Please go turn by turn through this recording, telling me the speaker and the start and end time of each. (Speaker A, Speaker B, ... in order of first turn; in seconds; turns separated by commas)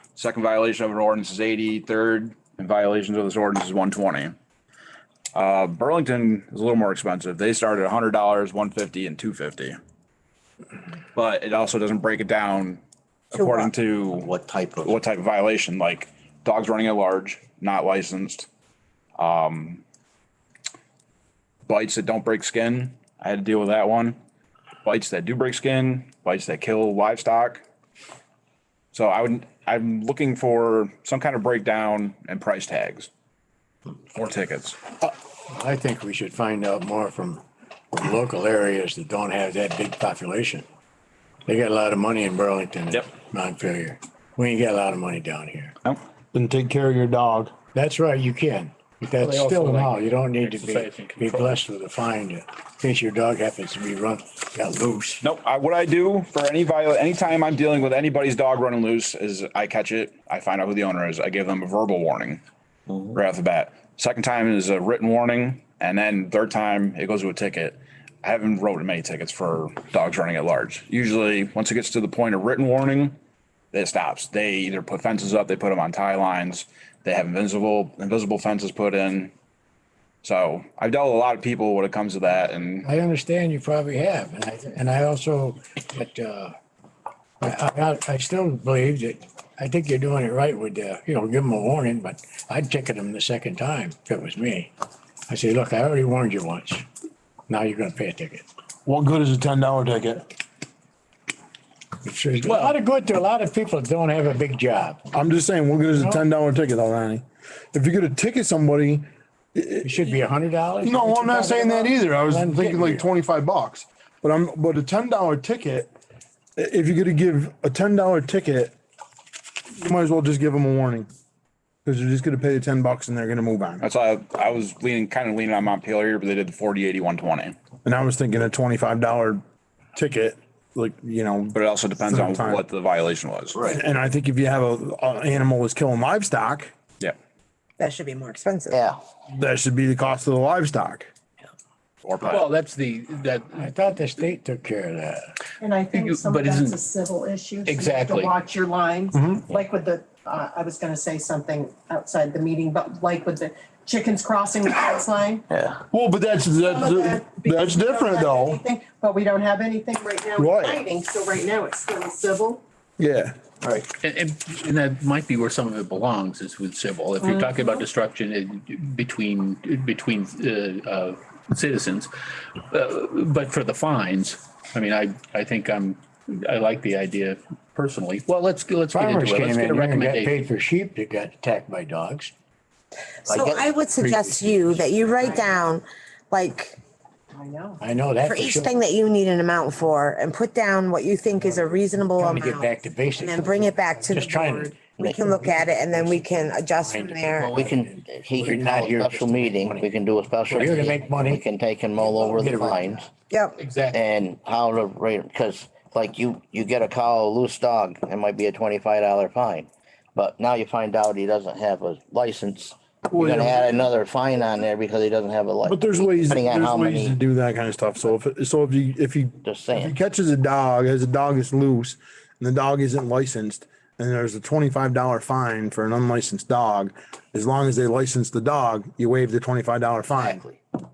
Speaker A: 0.1-4.3, Speaker A: 5.3-9.8, Speaker A: 11.1-18.5, Speaker B: 13.3-13.7, Speaker A: 19.2-19.8, Speaker A: 21.7-24.1, Speaker A: 24.8-27.6, Speaker A: 28.9-33.1, Speaker A: 34.1-34.8, Speaker C: 35.5-40.6, Speaker C: 41.5-45.7, Speaker D: 46.3-47.5, Speaker C: 47.7-55.2, Speaker E: 49.2-51.6, Speaker A: 55.2-62.4, Speaker A: 63.0-73.2, Speaker A: 73.7-79.3, Speaker A: 80.2-82.9, Speaker C: 82.8-86.5, Speaker C: 87.4-94.7, Speaker C: 95.3-96.8, Speaker C: 97.5-98.5, Speaker D: 98.8-100.2, Speaker C: 102.0-105.0, Speaker D: 105.1-110.0, Speaker C: 105.9-106.2, Speaker C: 109.8-113.1, Speaker D: 110.8-115.9, Speaker D: 116.6-118.7, Speaker D: 119.8-121.1, Speaker D: 121.8-123.8, Speaker A: 123.8-127.5, Speaker D: 127.8-129.4, Speaker D: 129.9-132.6, Speaker A: 131.5-133.6, Speaker D: 133.6-136.7, Speaker B: 137.8-138.8, Speaker F: 138.7-139.0, Speaker D: 139.3-141.1, Speaker A: 142.0-142.4, Speaker E: 142.2-143.7, Speaker C: 143.5-145.3, Speaker G: 145.6-146.0, Speaker E: 145.9-146.9, Speaker G: 146.7-155.4, Speaker E: 147.6-148.4, Speaker D: 149.1-149.4, Speaker F: 155.5-155.8, Speaker D: 155.9-158.6, Speaker G: 156.7-162.6, Speaker D: 160.4-160.8, Speaker D: 163.0-163.5, Speaker E: 164.0-180.3, Speaker C: 178.9-182.3, Speaker B: 183.3-186.8, Speaker C: 183.3-185.2, Speaker G: 187.3-187.8, Speaker C: 187.8-188.8, Speaker B: 188.2-197.6, Speaker C: 192.1-199.9, Speaker F: 195.0-195.2, Speaker F: 197.5-203.1, Speaker E: 200.4-200.9, Speaker C: 200.5-201.4, Speaker C: 202.0-203.1, Speaker B: 203.3-203.6, Speaker E: 203.6-204.0, Speaker F: 203.9-217.2, Speaker D: 213.2-213.8, Speaker D: 215.6-230.4, Speaker F: 219.4-219.9, Speaker F: 230.2-230.5